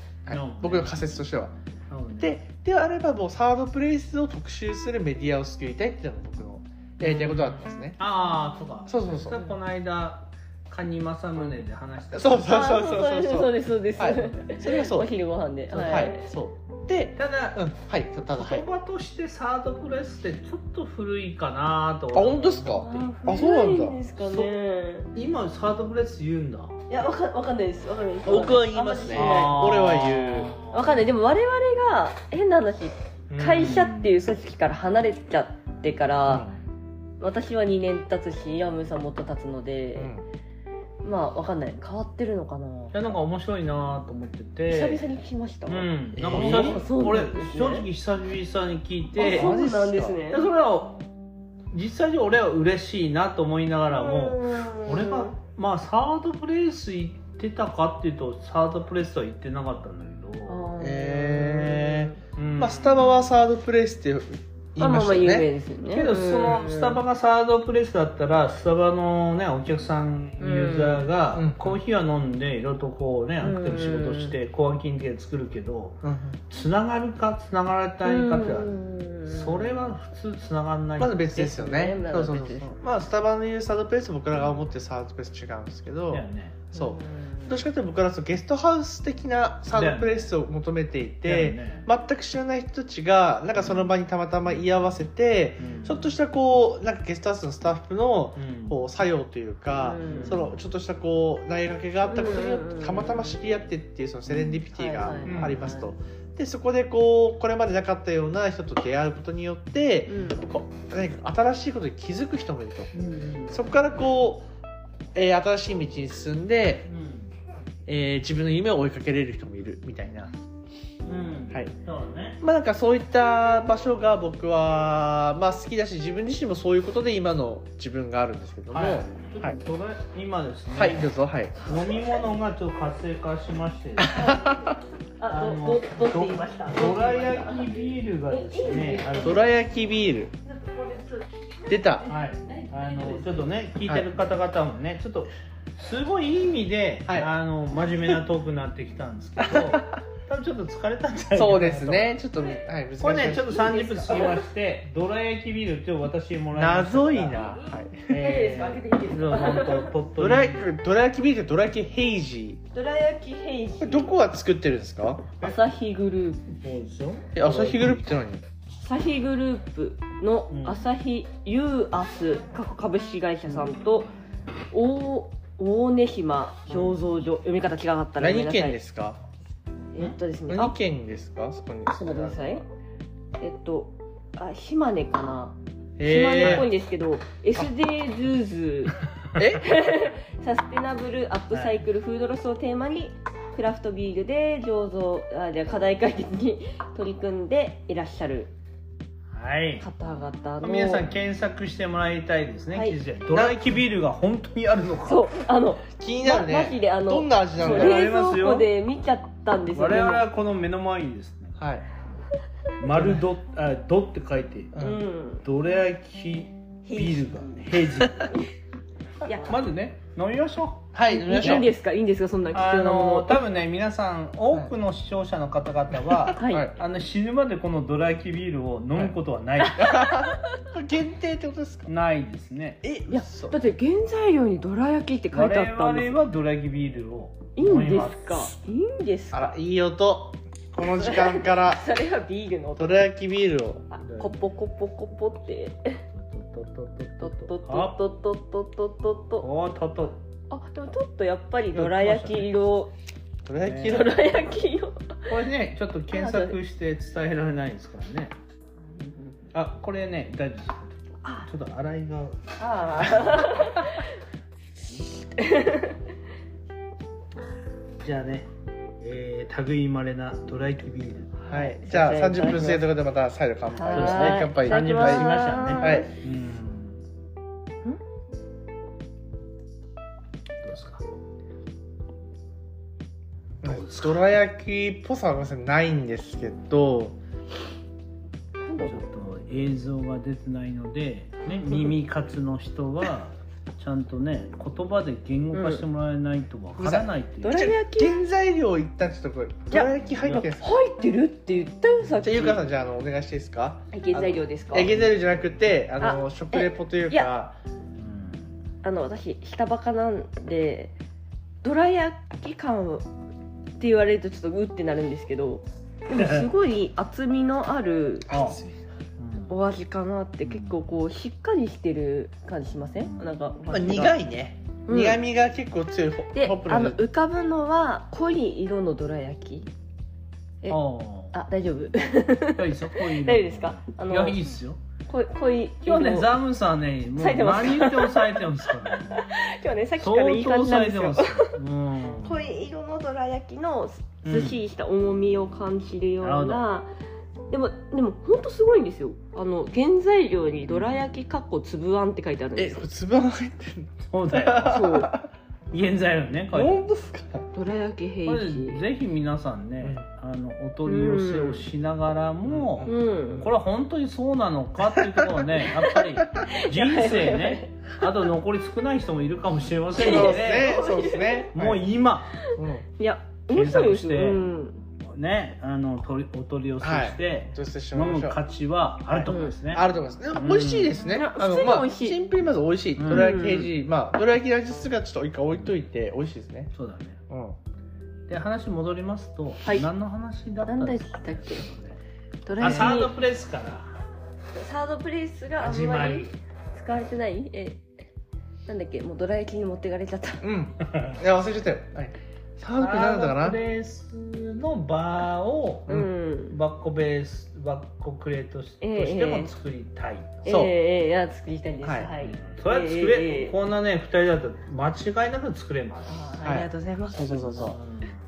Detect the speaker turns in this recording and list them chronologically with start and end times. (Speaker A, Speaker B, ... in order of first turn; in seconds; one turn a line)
Speaker A: 0.2-1.5
Speaker B: 0.3-1.1
Speaker B: 1.9-2.3
Speaker A: 2.2-8.0
Speaker B: 7.0-12.7
Speaker A: 8.9-9.4
Speaker A: 12.1-15.1
Speaker C: 12.4-16.2
Speaker A: 15.7-18.6
Speaker B: 17.2-17.6
Speaker B: 18.3-23.1
Speaker A: 22.1-24.0
Speaker C: 22.7-25.1
Speaker B: 24.2-24.5
Speaker B: 25.1-26.8
Speaker C: 26.9-29.6
Speaker A: 28.2-30.5
Speaker B: 29.1-31.1
Speaker C: 30.7-36.5
Speaker B: 33.3-34.1
Speaker A: 36.3-36.6
Speaker C: 37.2-40.1
Speaker A: 40.0-40.2
Speaker C: 41.0-42.9
Speaker B: 42.9-45.1
Speaker C: 44.7-47.9
Speaker B: 45.7-49.6
Speaker A: 46.1-46.8
Speaker C: 49.1-50.4
Speaker A: 49.2-50.2
Speaker B: 50.3-51.0
Speaker B: 51.7-60.6
Speaker C: 53.9-55.3
Speaker C: 60.5-62.2
Speaker A: 60.8-65.5
Speaker B: 62.4-63.1
Speaker C: 64.8-67.0
Speaker B: 65.9-78.7
Speaker C: 70.4-71.0
Speaker A: 71.3-71.8
Speaker C: 73.4-74.3
Speaker A: 76.0-76.4
Speaker C: 78.0-79.9
Speaker B: 79.2-81.3
Speaker A: 81.0-112.9
Speaker C: 81.3-82.8
Speaker B: 86.1-86.6
Speaker C: 86.7-87.6
Speaker B: 89.7-90.3
Speaker B: 91.2-91.8
Speaker B: 95.6-96.1
Speaker B: 98.4-98.8
Speaker C: 99.8-100.4
Speaker B: 100.0-100.5
Speaker C: 102.1-103.4
Speaker C: 104.3-105.9
Speaker B: 105.2-105.6
Speaker C: 110.1-110.4
Speaker B: 112.9-113.6
Speaker A: 113.5-114.5
Speaker A: 115.1-116.9
Speaker B: 116.9-117.3
Speaker A: 117.8-120.3
Speaker B: 121.0-122.4
Speaker A: 122.4-129.6
Speaker B: 128.7-131.1
Speaker A: 130.7-131.6
Speaker B: 131.6-134.2
Speaker A: 134.0-134.8
Speaker C: 134.1-137.7
Speaker B: 135.3-139.4
Speaker C: 138.3-139.4
Speaker A: 139.2-140.3
Speaker C: 140.4-143.5
Speaker A: 141.7-142.1
Speaker B: 142.1-152.2
Speaker A: 149.4-149.9
Speaker A: 151.3-153.8
Speaker B: 153.0-157.6
Speaker C: 153.3-154.4
Speaker A: 156.5-158.2
Speaker B: 158.1-160.7
Speaker C: 158.1-159.9
Speaker A: 160.2-162.6
Speaker C: 162.7-164.1
Speaker A: 163.8-165.3
Speaker C: 165.4-166.4
Speaker B: 166.5-168.1
Speaker A: 167.3-168.4
Speaker C: 168.8-174.1
Speaker B: 170.5-170.8
Speaker C: 174.7-178.8
Speaker A: 178.2-179.2
Speaker C: 179.9-180.7
Speaker A: 180.5-182.6
Speaker C: 181.9-182.6
Speaker C: 183.4-188.9
Speaker A: 186.0-186.7
Speaker B: 186.4-186.7
Speaker A: 189.3-189.7
Speaker C: 189.6-198.5
Speaker B: 191.5-191.8
Speaker B: 199.3-199.8
Speaker C: 199.8-201.1
Speaker B: 200.6-205.3
Speaker C: 202.7-203.0
Speaker A: 203.3-203.7
Speaker C: 205.1-210.3
Speaker A: 206.0-208.0
Speaker B: 207.6-208.7
Speaker B: 209.7-211.6
Speaker A: 211.6-211.8
Speaker B: 212.8-214.8
Speaker A: 212.9-213.2
Speaker A: 214.7-215.0
Speaker C: 214.8-215.4
Speaker B: 215.4-218.3
Speaker C: 216.8-217.7
Speaker C: 219.2-219.6
Speaker B: 219.4-221.7
Speaker A: 220.9-221.7
Speaker C: 221.1-223.4
Speaker B: 222.5-229.9
Speaker A: 226.1-226.8
Speaker C: 226.3-226.7
Speaker C: 229.6-230.4
Speaker A: 229.7-231.9
Speaker B: 231.9-232.8
Speaker A: 232.8-233.6
Speaker C: 233.1-236.2
Speaker B: 235.3-238.5
Speaker C: 237.6-239.5
Speaker A: 239.3-241.8
Speaker C: 240.9-243.1
Speaker A: 242.8-243.8
Speaker C: 243.9-246.0
Speaker B: 244.0-244.4
Speaker B: 246.1-247.9
Speaker C: 247.2-249.4
Speaker B: 249.4-250.2
Speaker C: 250.5-252.9
Speaker B: 251.7-252.5
Speaker A: 253.4-254.2
Speaker B: 253.6-254.1
Speaker C: 253.8-255.3
Speaker B: 255.3-258.3
Speaker C: 256.1-256.6
Speaker C: 258.9-259.4
Speaker B: 259.5-262.4
Speaker C: 261.2-261.5
Speaker C: 262.6-264.1
Speaker B: 263.0-263.4
Speaker C: 265.4-265.9
Speaker B: 268.0-268.5
Speaker B: 269.0-271.3
Speaker C: 271.4-272.8
Speaker A: 271.5-276.1
Speaker C: 273.7-276.1
Speaker B: 273.9-277.0
Speaker B: 280.6-281.0
Speaker A: 283.6-287.2
Speaker B: 283.6-284.2
Speaker C: 288.6-289.0
Speaker B: 288.8-297.7
Speaker C: 295.5-295.8
Speaker A: 296.8-300.8
Speaker C: 297.4-298.1
Speaker C: 299.7-302.6
Speaker B: 300.2-300.4
Speaker A: 302.2-307.6
Speaker C: 303.9-304.9
Speaker C: 306.0-307.3
Speaker B: 308.0-308.5
Speaker C: 308.8-310.9
Speaker C: 311.6-313.1
Speaker C: 313.8-318.3
Speaker B: 316.1-316.5
Speaker B: 318.3-318.6
Speaker A: 318.3-318.6
Speaker B: 319.2-319.5
Speaker C: 319.5-324.2
Speaker B: 320.4-320.8
Speaker B: 323.0-323.3
Speaker A: 323.7-327.0
Speaker C: 324.9-325.2
Speaker C: 326.3-329.7
Speaker B: 330.7-331.3
Speaker C: 331.3-334.4
Speaker B: 332.5-334.8
Speaker C: 335.1-336.3
Speaker B: 335.8-339.2
Speaker C: 337.2-338.4
Speaker C: 339.1-341.5
Speaker B: 340.0-342.4
Speaker C: 342.2-346.9
Speaker B: 344.2-344.6
Speaker B: 346.2-346.6
Speaker C: 347.5-352.9
Speaker B: 350.7-351.0
Speaker A: 352.6-355.3
Speaker B: 354.1-354.8
Speaker C: 354.6-355.1
Speaker B: 355.7-356.8
Speaker A: 356.5-357.5
Speaker C: 357.5-358.8
Speaker B: 358.2-370.8
Speaker C: 360.9-361.6
Speaker A: 362.4-363.0
Speaker C: 362.8-363.5
Speaker A: 365.0-365.2
Speaker C: 365.8-367.7
Speaker C: 369.9-371.5
Speaker A: 369.9-371.9
Speaker B: 371.5-372.4
Speaker A: 372.5-372.8
Speaker C: 373.0-374.8
Speaker B: 373.5-374.4
Speaker B: 375.1-381.0
Speaker A: 376.8-378.4
Speaker A: 379.1-386.7
Speaker C: 379.3-379.6
Speaker C: 381.1-382.2
Speaker B: 383.0-383.3
Speaker C: 383.1-383.7
Speaker B: 386.7-387.2
Speaker A: 387.3-387.6
Speaker B: 388.3-392.0
Speaker C: 390.6-391.6
Speaker C: 392.4-393.1
Speaker B: 392.6-394.0
Speaker A: 392.6-392.9
Speaker C: 394.5-397.8
Speaker B: 395.6-396.3
Speaker C: 398.6-400.4
Speaker A: 400.4-403.6
Speaker B: 400.8-401.2
Speaker B: 402.8-406.0
Speaker C: 405.9-406.6
Speaker B: 406.5-410.4
Speaker C: 408.8-409.5
Speaker C: 410.4-413.5
Speaker A: 410.4-410.7
Speaker A: 411.8-412.1
Speaker B: 412.2-416.5
Speaker C: 416.1-417.7
Speaker A: 416.4-417.8
Speaker B: 417.5-418.2